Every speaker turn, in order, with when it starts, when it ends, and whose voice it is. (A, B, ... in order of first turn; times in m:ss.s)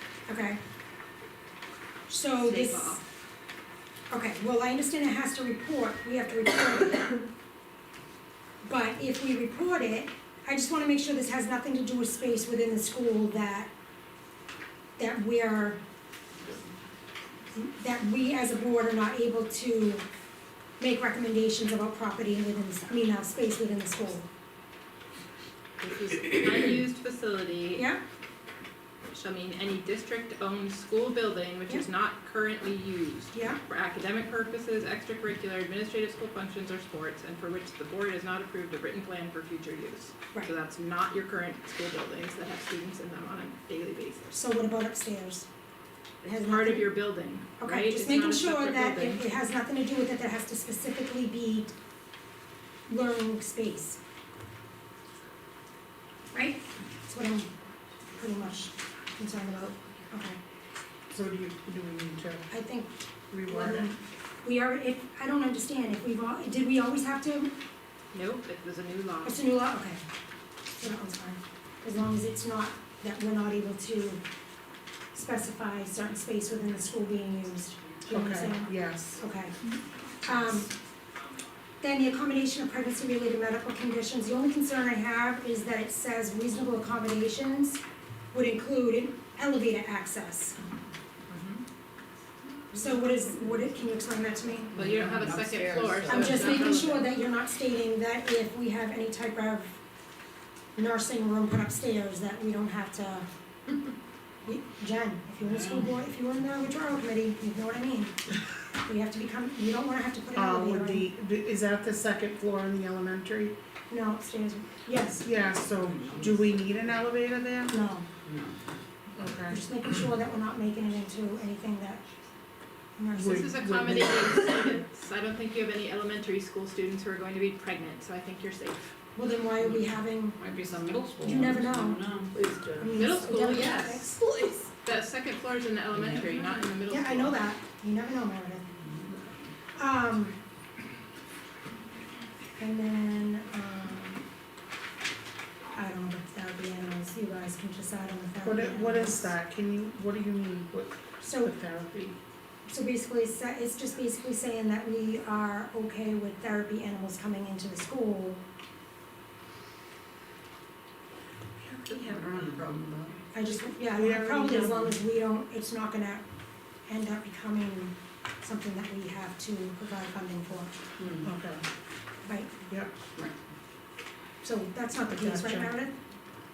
0:00.3-0:00.6 A
0:02.1-0:03.0 A
0:02.4-0:03.0 B
0:04.1-0:07.2 A
0:08.6-0:13.7 A
0:15.0-0:15.8 A
0:17.5-0:20.0 A
0:20.8-0:24.3 A
0:25.8-0:27.8 B
0:27.8-0:28.0 A
0:29.1-0:44.4 B
0:33.3-0:33.6 A
0:44.3-0:45.5 A
0:46.2-0:49.2 B
0:46.2-0:47.1 A
0:47.6-0:51.7 A
0:52.9-0:54.0 A
0:56.3-0:57.5 A
0:58.1-1:00.4 A
1:01.1-1:02.5 C
1:02.5-1:07.5 A
1:03.3-1:03.9 C
1:08.1-1:09.4 B
1:09.2-1:10.0 A
1:10.8-1:14.2 A
1:15.1-1:19.6 A
1:18.1-1:19.2 C
1:20.2-1:20.7 A
1:21.8-1:27.8 A
1:28.3-1:30.6 A
1:31.3-1:31.6 B
1:32.7-1:34.7 A
1:34.7-1:36.6 D
1:34.7-1:37.1 B
1:36.1-1:39.8 A
1:40.7-1:43.3 A
1:44.4-1:48.2 A
1:45.4-1:45.9 D
1:48.8-1:51.1 A
1:50.3-1:53.5 C
1:53.9-1:55.2 A
1:55.1-1:57.8 C
1:55.7-1:57.0 D
1:57.7-1:58.1 A
1:58.2-1:58.6 D
1:59.2-1:59.6 C
1:59.5-2:02.0 A
2:03.0-2:03.4 A
2:03.1-2:04.6 C
2:03.2-2:08.8 B
2:09.1-2:10.4 A
2:09.6-2:12.4 D
2:11.2-2:12.0 A
2:12.8-2:14.2 A
2:12.9-2:17.4 B
2:15.9-2:16.6 D
2:16.9-2:18.7 A
2:18.7-2:19.4 D
2:19.7-2:20.4 A
2:22.6-2:24.2 A
2:25.7-2:29.3 A
2:28.4-2:32.2 C
2:31.2-2:31.5 A
2:32.6-2:38.4 A
2:41.6-2:42.4 C
2:41.9-2:43.2 D
2:43.3-2:46.2 A
2:43.8-2:45.0 C
2:46.9-2:50.7 A
2:51.0-2:51.3 D
2:51.2-2:51.6 C
2:52.2-2:52.6 A
2:54.4-2:56.0 A
2:55.1-2:55.8 C